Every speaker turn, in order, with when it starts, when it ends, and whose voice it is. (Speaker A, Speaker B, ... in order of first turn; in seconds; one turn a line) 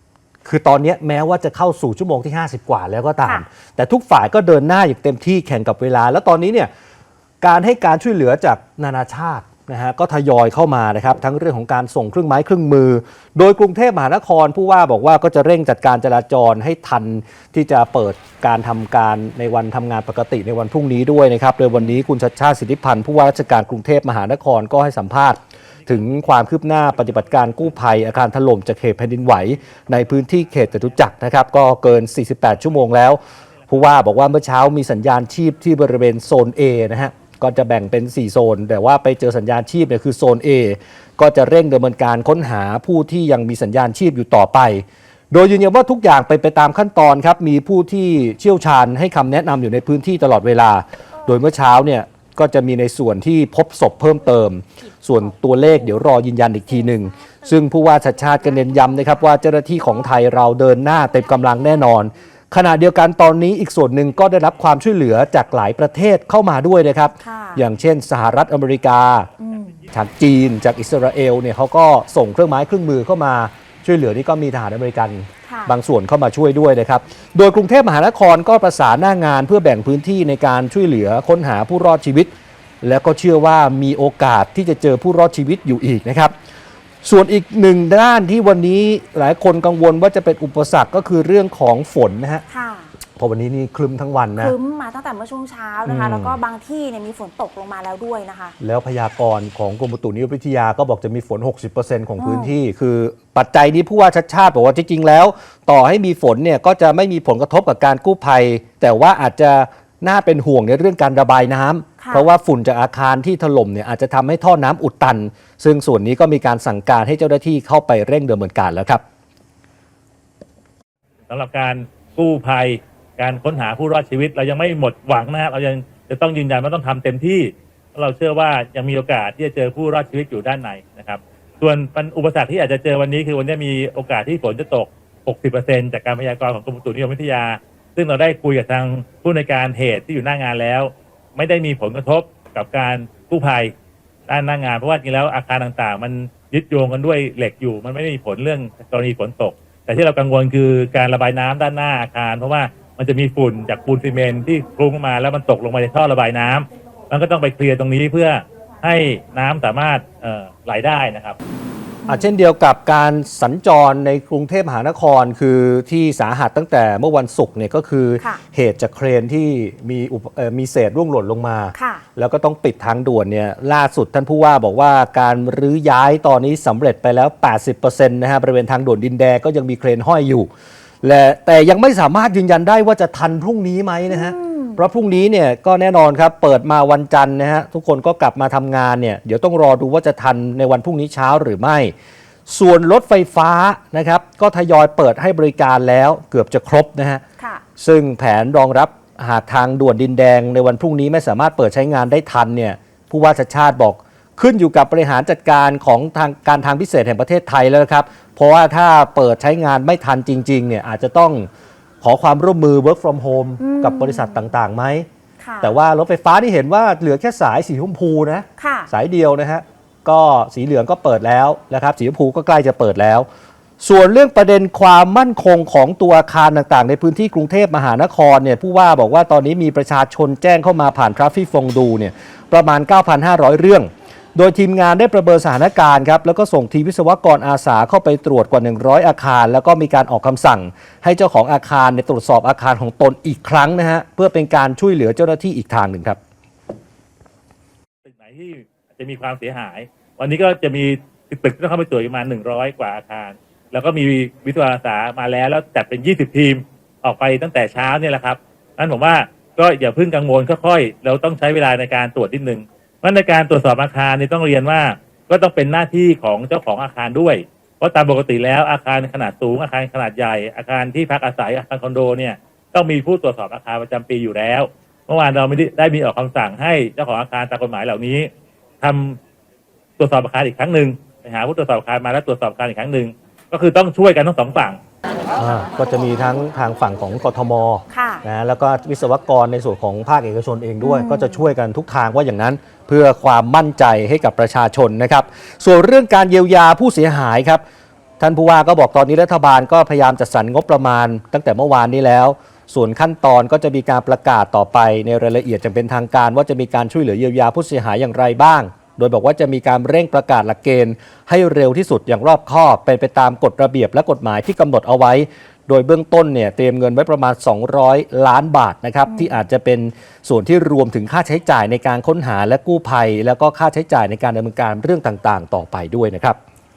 Speaker A: 0.5-6.7
Speaker A: 7.4-69.3
Speaker B: 51.2-51.4
Speaker B: 55.2-56.0
Speaker B: 56.7-60.1
Speaker B: 61.2-61.9
Speaker B: 67.2-67.6
Speaker B: 69.4-69.8
Speaker C: 69.5-69.9
Speaker A: 69.9-82.3
Speaker B: 75.4-75.7
Speaker A: 82.8-86.3
Speaker A: 87.0-92.4
Speaker B: 92.5-92.9
Speaker A: 93.2-94.5
Speaker B: 94.4-98.6
Speaker A: 95.8-96.4
Speaker A: 98.6-119.0
Speaker B: 102.2-102.5
Speaker B: 112.0-112.3
Speaker C: 121.3-143.7
Speaker C: 144.3-161.4
Speaker B: 162.0-162.3
Speaker A: 162.1-180.5
Speaker B: 171.8-172.1
Speaker A: 181.0-191.9
Speaker B: 184.1-184.8
Speaker A: 192.5-197.2
Speaker B: 197.4-197.6
Speaker A: 197.8-211.5
Speaker A: 212.0-215.1
Speaker B: 213.6-214.5
Speaker B: 215.4-215.8
Speaker A: 215.6-223.3
Speaker B: 218.6-218.9
Speaker A: 223.8-246.2
Speaker C: 248.1-278.3
Speaker C: 278.8-279.2
Speaker C: 280.0-284.8
Speaker A: 285.4-297.6
Speaker B: 287.9-288.2
Speaker B: 290.8-291.5
Speaker A: 298.2-326.4
Speaker B: 319.1-319.4